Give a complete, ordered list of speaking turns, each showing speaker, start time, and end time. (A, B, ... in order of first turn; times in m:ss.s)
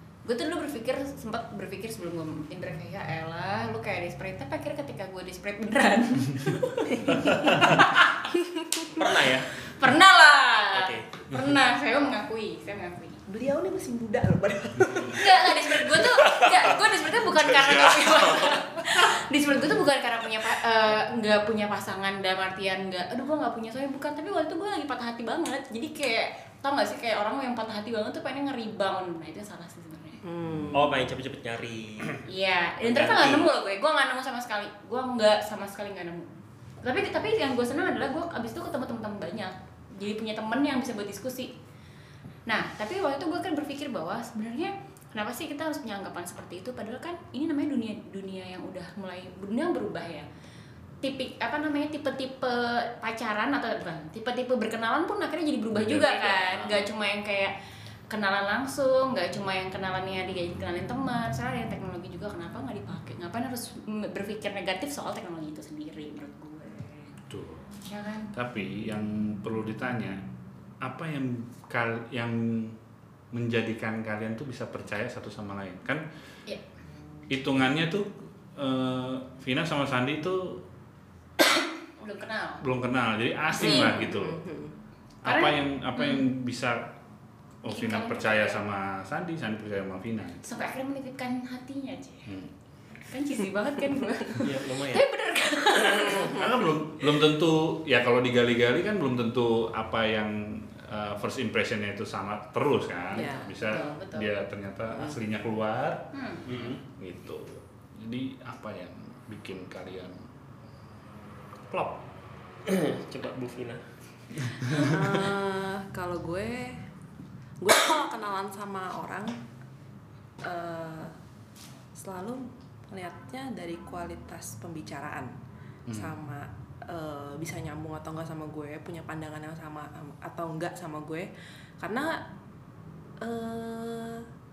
0:00.2-0:08.2 A
0:08.4-0:08.9 B
0:08.9-0:09.5 C
0:09.7-0:13.2 A
0:10.7-0:11.1 C
0:13.3-0:15.5 B
0:15.1-0:30.2 A
0:16.2-0:16.6 C
0:17.3-0:18.6 D
0:30.2-0:31.0 B
0:30.7-0:32.2 C
0:32.3-0:36.3 A
0:32.8-0:33.5 C
0:36.8-0:41.5 A
0:42.5-0:50.3 A
0:51.0-0:57.5 A
0:55.7-0:56.9 D
0:58.1-1:07.1 A
1:07.3-1:07.6 D
1:07.9-1:08.3 A
1:08.3-1:10.2 D
1:10.8-1:12.8 D
1:13.3-1:16.0 D
1:17.3-1:20.6 D
1:21.9-1:22.6 A
1:22.6-1:24.4 D
1:23.5-1:24.1 A
1:23.6-1:24.7 B
1:25.2-1:26.9 D
1:25.2-1:26.3 A
1:27.6-1:30.4 D
1:27.7-1:28.6 A
1:30.4-1:32.3 A
1:33.0-1:36.4 A
1:34.4-1:35.0 C
1:35.9-1:36.6 B
1:36.3-1:46.1 D
1:43.1-1:43.6 B
1:43.6-1:44.3 A
1:44.9-1:45.2 B
1:46.1-1:46.5 A
1:46.5-1:46.8 C
1:46.9-1:50.2 D
1:51.7-1:52.0 C
1:52.7-1:53.8 C
1:54.7-1:54.9 D
1:54.8-1:56.8 B
1:57.6-1:59.3 B
2:00.4-2:01.1 B
2:02.0-2:05.3 B
2:05.9-2:06.1 D
2:05.9-2:11.3 B
2:11.8-2:12.2 B
2:13.2-2:14.2 B